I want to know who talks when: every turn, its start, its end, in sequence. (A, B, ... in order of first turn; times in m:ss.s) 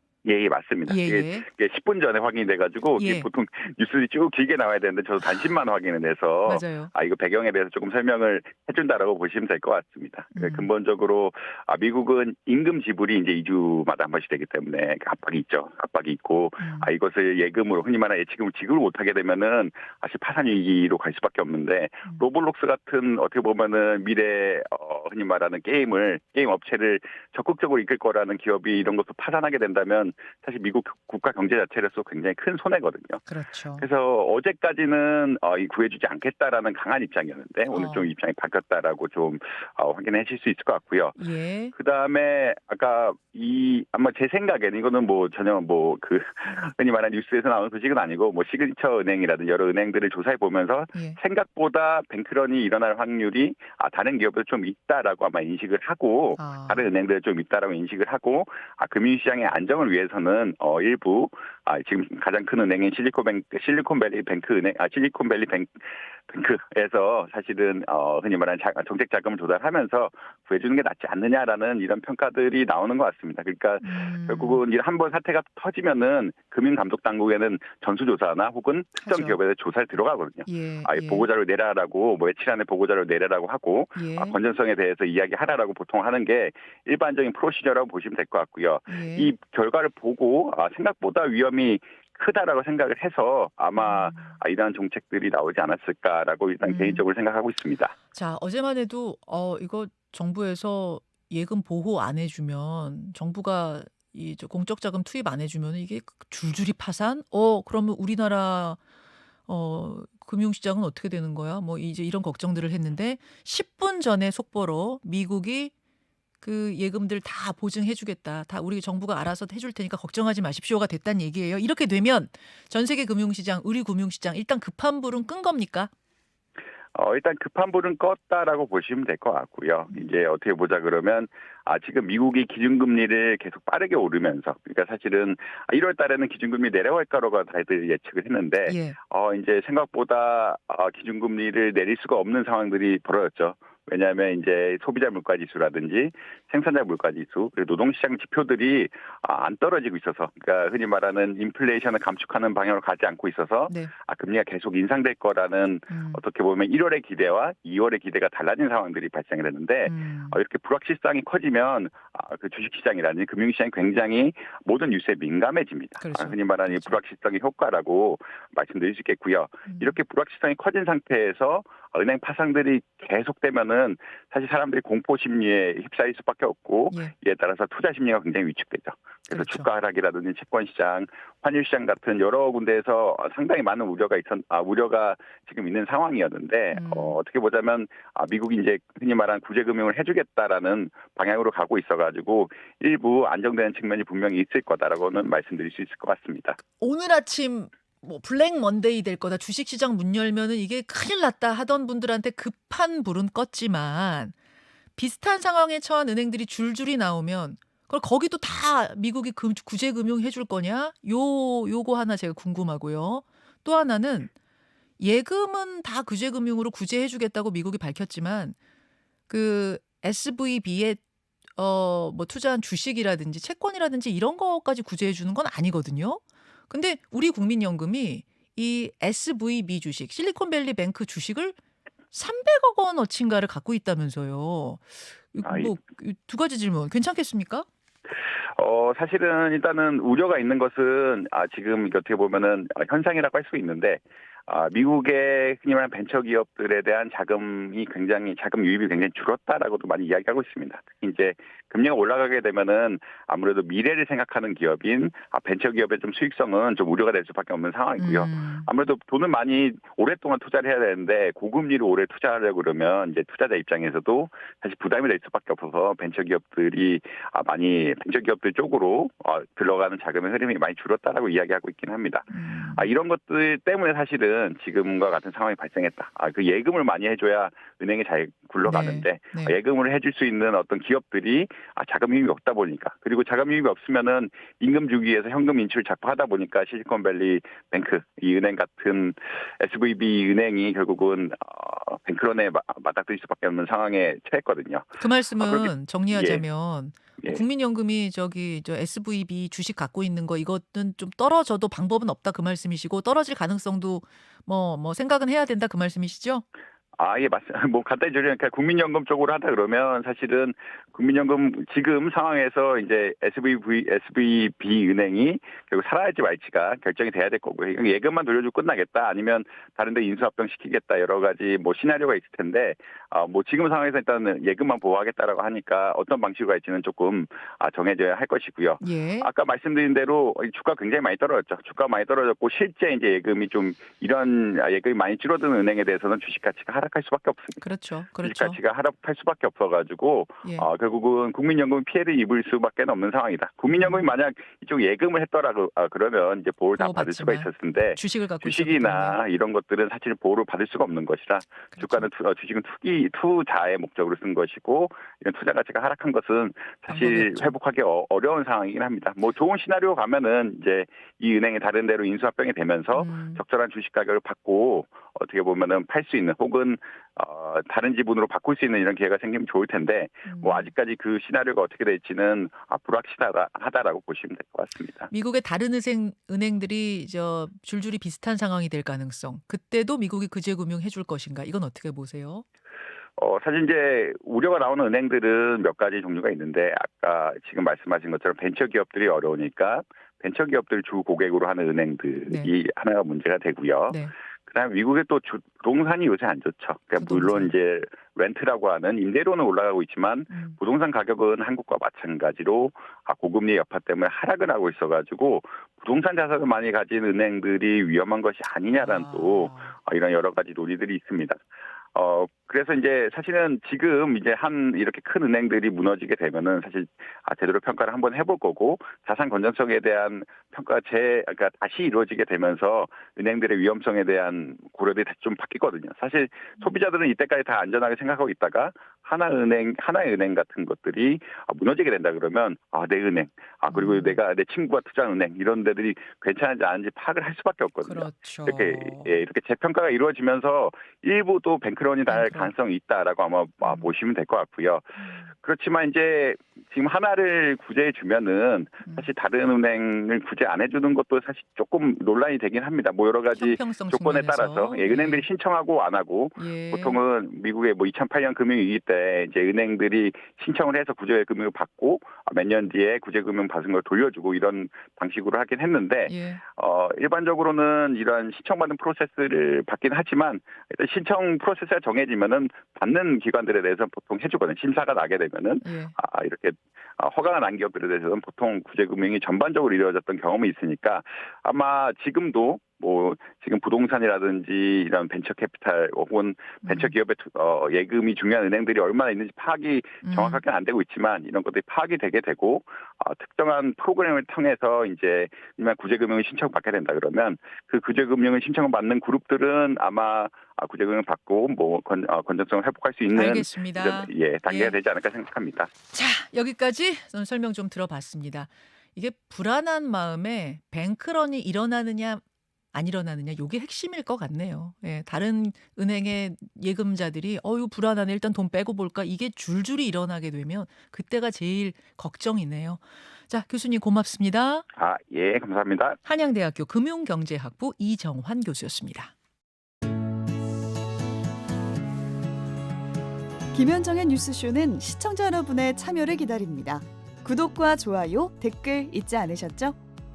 0:00.2-0:33.2 A
0:00.9-0:01.5 B
0:03.0-0:03.3 B
0:06.5-0:06.9 B
0:10.4-0:10.7 B
0:16.6-0:16.9 B
0:33.3-0:33.9 B
0:33.8-0:41.2 A
0:37.7-0:38.1 B
0:41.2-0:41.7 B
0:41.7-1:38.0 A
0:56.4-0:56.9 B
1:13.8-1:14.6 B
1:19.0-1:19.4 B
1:20.5-1:21.3 B
1:24.0-1:24.4 B
1:28.9-1:29.3 B
1:33.8-1:34.3 B
1:36.6-1:37.0 B
1:38.1-1:48.8 B
1:49.5-1:55.7 B
1:56.4-2:05.9 B
2:07.0-3:16.6 A
2:18.7-2:19.0 B
2:35.9-2:36.2 B
2:39.9-2:40.4 B
2:46.0-2:47.0 B
2:59.3-2:59.7 B
3:06.7-3:07.2 B
3:16.8-3:24.3 B
3:25.0-3:34.3 B
3:35.0-3:38.6 B
3:39.3-3:41.0 B
3:41.6-3:51.6 B
3:52.1-3:57.7 B
3:55.4-3:55.8 A
3:58.6-4:56.4 A
4:18.0-4:18.7 B
4:32.3-4:32.9 B
4:38.6-4:39.6 B
4:55.0-5:06.4 B
5:07.0-5:37.6 A
5:28.8-5:29.3 B
5:37.6-5:38.6 B
5:38.2-6:15.1 A
5:43.7-5:44.1 B
5:46.8-5:49.2 B
5:51.8-5:52.1 B
5:56.9-5:57.5 B
6:03.0-6:03.4 B
6:10.3-6:10.7 B
6:15.1-6:22.4 B
6:23.2-6:51.4 A
6:37.0-6:37.5 B
6:40.3-6:40.6 B
6:48.7-6:49.7 B
6:52.0-8:25.7 A
7:13.7-7:14.2 B
7:17.8-7:19.2 B
7:22.1-7:22.5 B
7:33.3-7:35.3 B
7:36.4-7:37.0 B
7:46.1-7:46.4 B
7:55.6-7:55.9 B
8:06.6-8:06.9 B
8:10.0-8:10.4 B
8:23.1-8:24.8 B
8:25.9-8:32.2 B
8:32.7-8:44.6 B
8:44.7-8:46.0 A
8:46.0-8:49.1 B
8:53.5-8:59.8 C